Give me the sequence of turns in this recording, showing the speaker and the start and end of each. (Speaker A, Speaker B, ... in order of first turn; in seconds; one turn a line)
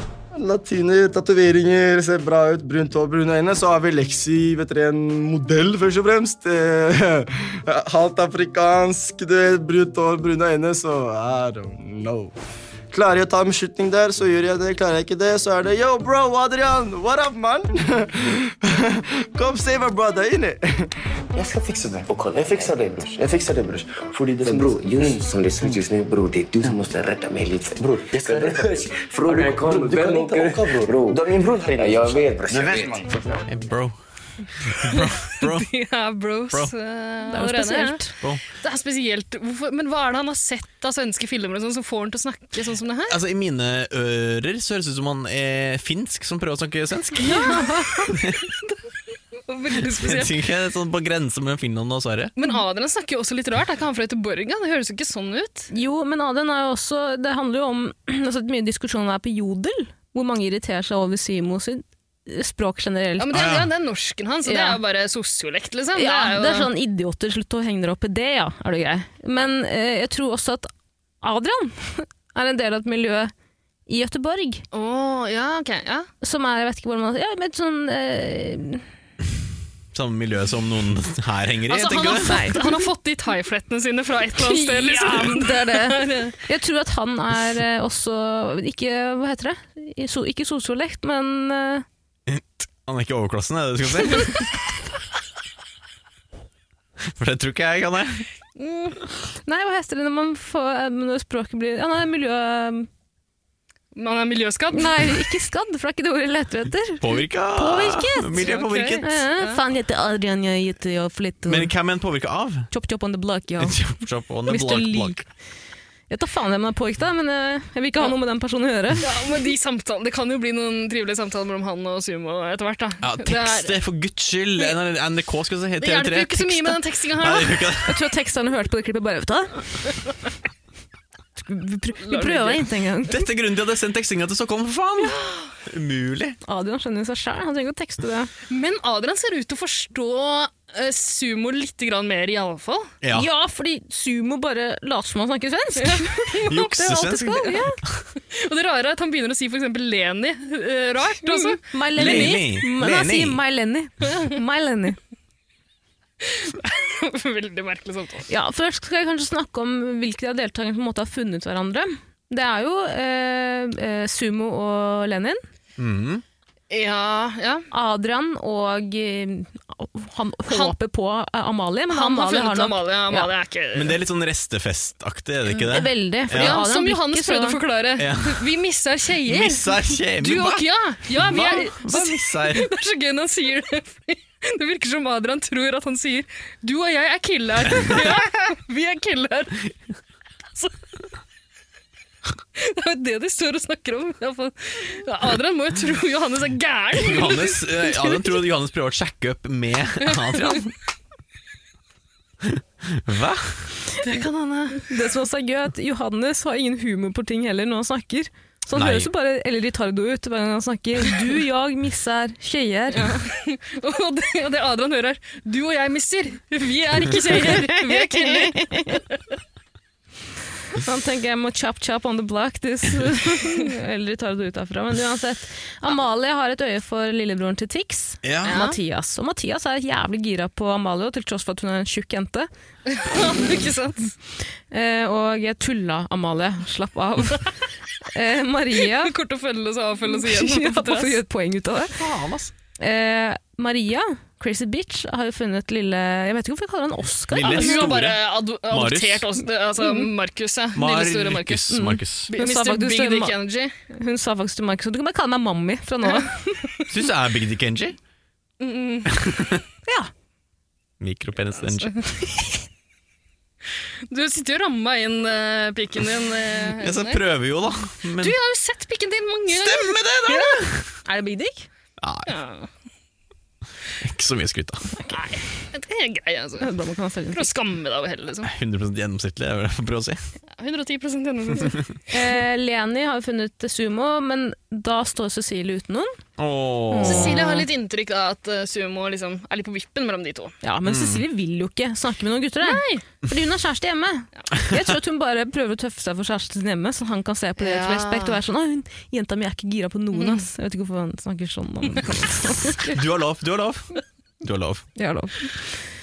Speaker A: 0.3-12.3
Speaker A: 12.9-20.6
Speaker B: 21.4-25.8
Speaker C: 21.4-23.1
Speaker C: 24.4-33.0
Speaker B: 26.6-26.9
Speaker B: 27.8-33.5
Speaker D: 33.5-33.9
Speaker D: 34.8-35.7
Speaker E: 34.9-43.2
Speaker F: 37.3-38.1
Speaker D: 43.1-48.5
Speaker F: 47.2-48.1
Speaker E: 47.5-48.0
Speaker E: 49.5-50.3
Speaker D: 50.0-52.3
Speaker E: 52.4-55.7
Speaker F: 55.7-63.4
Speaker E: 63.2-66.7
Speaker D: 63.3-63.7
Speaker F: 64.4-64.8
Speaker F: 66.0-70.7
Speaker F: 71.2-73.3
Speaker F: 73.9-74.6
Speaker E: 74.7-76.1
Speaker F: 76.2-78.8
Speaker D: 79.9-82.5
Speaker E: 81.7-86.3
Speaker F: 82.2-82.6
Speaker F: 84.4-91.8
Speaker D: 92.3-94.5
Speaker D: 97.2-98.2
Speaker E: 98.6-99.0
Speaker F: 99.4-102.9
Speaker E: 103.9-105.0
Speaker F: 104.7-111.7
Speaker D: 107.0-109.2
Speaker E: 108.4-109.6
Speaker D: 111.5-112.7
Speaker F: 112.7-113.8
Speaker D: 113.6-115.2
Speaker F: 114.5-115.2
Speaker F: 116.1-119.1
Speaker E: 119.0-123.8
Speaker D: 123.0-128.0
Speaker E: 125.8-127.7
Speaker F: 127.8-129.8
Speaker F: 131.4-133.2
Speaker E: 132.0-132.6
Speaker D: 133.1-136.4
Speaker E: 135.1-135.5
Speaker F: 136.4-138.3
Speaker E: 138.5-142.9
Speaker D: 143.0-143.3
Speaker F: 143.1-147.8
Speaker E: 145.8-146.4
Speaker D: 146.5-148.0
Speaker E: 148.3-152.4
Speaker F: 151.2-155.0
Speaker D: 151.9-153.4
Speaker E: 156.2-158.2
Speaker F: 158.3-165.4
Speaker D: 165.8-166.2
Speaker E: 166.7-167.7
Speaker F: 167.7-173.3
Speaker E: 170.5-170.7
Speaker E: 171.9-174.0
Speaker D: 173.7-176.6
Speaker E: 175.5-189.7
Speaker F: 175.7-177.6
Speaker D: 178.0-178.5
Speaker D: 179.2-180.6
Speaker D: 181.2-182.7
Speaker D: 187.7-188.0
Speaker E: 192.6-198.2
Speaker D: 196.9-200.7
Speaker E: 200.0-200.6
Speaker D: 202.4-203.7
Speaker E: 204.0-204.9
Speaker F: 204.8-213.2
Speaker D: 208.7-209.1
Speaker E: 212.9-218.9
Speaker F: 217.4-219.0
Speaker F: 220.7-232.5
Speaker D: 228.2-228.6
Speaker E: 228.4-228.8
Speaker E: 232.9-234.1
Speaker F: 234.7-237.5
Speaker F: 238.1-239.1
Speaker E: 238.8-241.2
Speaker F: 240.1-242.0
Speaker D: 241.9-242.5
Speaker F: 242.8-247.9
Speaker D: 247.3-249.3
Speaker E: 247.4-253.7
Speaker F: 249.8-250.1
Speaker D: 250.7-252.3
Speaker F: 251.7-253.3
Speaker F: 253.9-256.6
Speaker D: 256.9-258.0
Speaker E: 258.6-259.4
Speaker D: 259.2-259.6
Speaker D: 261.0-262.0
Speaker E: 261.6-261.9
Speaker E: 264.1-267.2
Speaker D: 266.8-268.3
Speaker E: 268.2-270.6
Speaker D: 269.5-270.9
Speaker F: 271.0-271.6
Speaker D: 272.0-272.3
Speaker E: 272.3-272.7
Speaker D: 274.0-274.9
Speaker E: 275.1-276.7
Speaker F: 276.6-277.5
Speaker E: 277.3-278.5
Speaker D: 278.4-280.2
Speaker E: 280.6-281.8
Speaker F: 282.1-286.1
Speaker D: 286.4-287.4
Speaker F: 286.9-287.7
Speaker E: 287.0-290.5
Speaker F: 290.6-302.9
Speaker D: 290.9-291.2
Speaker E: 292.6-293.0
Speaker E: 297.6-298.4
Speaker E: 300.1-300.4
Speaker D: 302.8-303.9
Speaker D: 304.4-304.9
Speaker F: 304.9-305.8